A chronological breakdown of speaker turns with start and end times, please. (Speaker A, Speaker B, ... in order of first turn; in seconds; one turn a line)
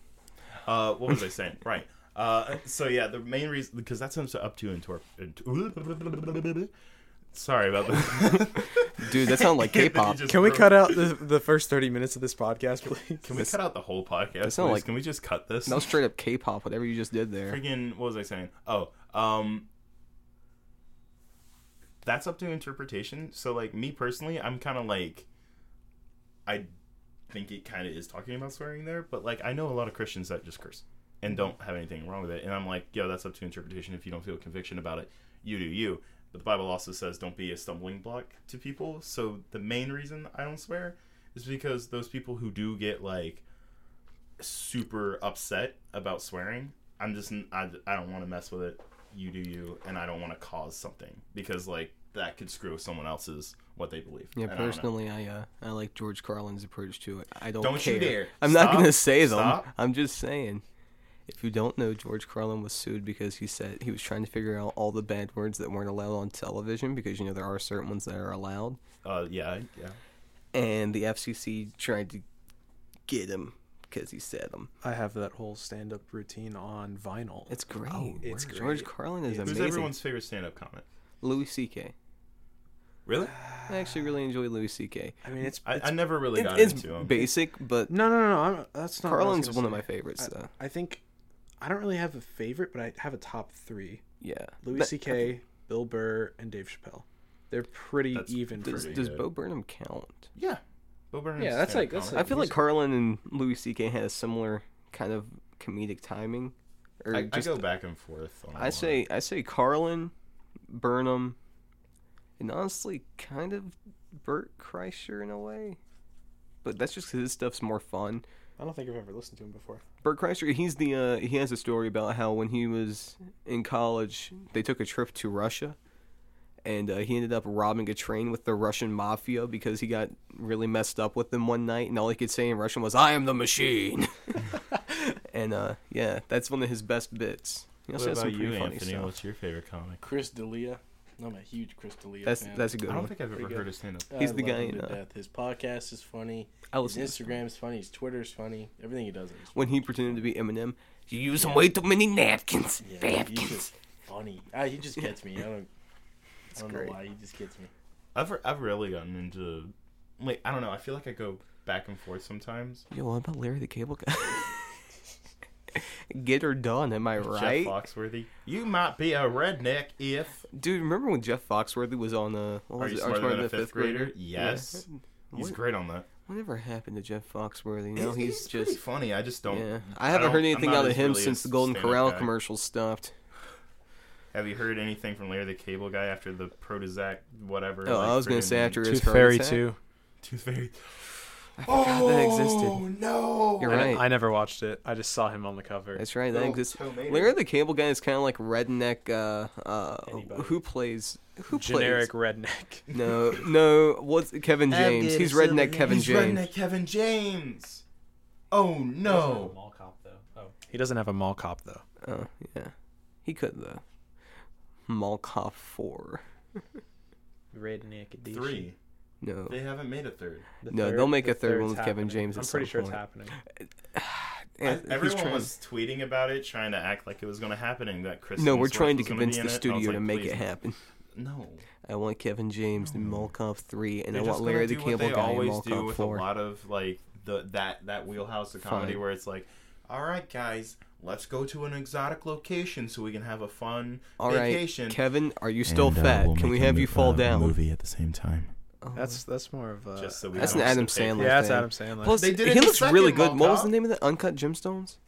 Speaker A: 0.7-6.7
Speaker A: 7.3-11.2
Speaker B: 9.0-10.3
Speaker C: 10.3-13.4
Speaker A: 13.2-16.0
Speaker B: 14.4-14.9
Speaker B: 15.7-17.6
Speaker A: 17.5-19.7
Speaker A: 22.0-25.3
Speaker A: 26.5-26.7
Speaker A: 27.3-43.4
Speaker A: 44.4-54.9
Speaker B: 54.4-60.6
Speaker A: 57.6-59.7
Speaker B: 61.3-68.8
Speaker A: 69.0-70.0
Speaker B: 70.5-72.2
Speaker B: 73.1-74.7
Speaker C: 74.8-79.9
Speaker B: 77.5-80.0
Speaker A: 78.1-78.6
Speaker A: 79.4-80.8
Speaker B: 81.2-81.9
Speaker A: 83.1-83.4
Speaker C: 83.3-83.8
Speaker B: 83.7-85.2
Speaker C: 85.2-86.0
Speaker A: 85.6-87.2
Speaker B: 86.3-88.0
Speaker C: 87.9-91.0
Speaker B: 89.0-90.5
Speaker C: 91.6-94.0
Speaker B: 94.2-95.3
Speaker C: 94.6-99.0
Speaker A: 98.1-99.3
Speaker B: 98.6-100.3
Speaker A: 100.3-102.5
Speaker C: 101.4-102.6
Speaker B: 102.1-107.7
Speaker A: 107.1-109.0
Speaker B: 108.6-110.1
Speaker B: 110.7-111.4
Speaker B: 112.4-115.8
Speaker B: 116.6-118.2
Speaker C: 118.6-119.8
Speaker B: 120.0-125.8
Speaker B: 126.6-139.1
Speaker A: 137.9-140.0
Speaker D: 140.0-142.8
Speaker B: 142.2-143.2
Speaker A: 142.9-144.2
Speaker D: 144.1-150.2
Speaker B: 144.1-145.0
Speaker B: 146.7-147.4
Speaker B: 149.5-153.7
Speaker D: 151.4-151.7
Speaker D: 152.8-155.7
Speaker B: 156.6-156.9
Speaker D: 156.6-157.7
Speaker A: 158.2-162.8
Speaker B: 162.9-164.7
Speaker B: 165.7-167.8
Speaker A: 167.2-170.5
Speaker B: 170.5-175.6
Speaker A: 172.8-176.1
Speaker B: 176.3-178.8
Speaker A: 178.0-182.3
Speaker B: 179.5-183.1
Speaker A: 184.3-188.9
Speaker B: 187.8-189.7
Speaker C: 188.8-189.8
Speaker A: 190.2-194.0
Speaker B: 191.6-192.9
Speaker B: 193.6-194.1
Speaker C: 193.6-196.0
Speaker B: 195.9-202.1
Speaker A: 196.3-197.4
Speaker C: 200.1-200.6
Speaker C: 201.5-202.9
Speaker A: 202.9-203.2
Speaker B: 202.9-206.5
Speaker A: 204.7-207.8
Speaker A: 208.5-209.6
Speaker C: 209.1-211.8
Speaker B: 212.0-212.7
Speaker B: 213.2-213.8
Speaker B: 214.9-216.2
Speaker C: 217.5-218.7
Speaker A: 218.2-218.8
Speaker B: 219.2-219.6
Speaker A: 219.5-220.5
Speaker C: 220.6-223.4
Speaker B: 220.7-223.0
Speaker B: 223.6-225.5
Speaker A: 224.6-230.5
Speaker B: 228.4-230.8
Speaker A: 231.1-231.6
Speaker B: 231.8-236.3
Speaker A: 232.8-233.3
Speaker A: 234.1-245.0
Speaker B: 238.6-239.0
Speaker B: 244.2-247.6
Speaker A: 245.6-248.5
Speaker B: 248.8-249.2
Speaker C: 248.9-252.2
Speaker A: 250.0-251.5
Speaker B: 250.4-255.0
Speaker A: 252.1-253.8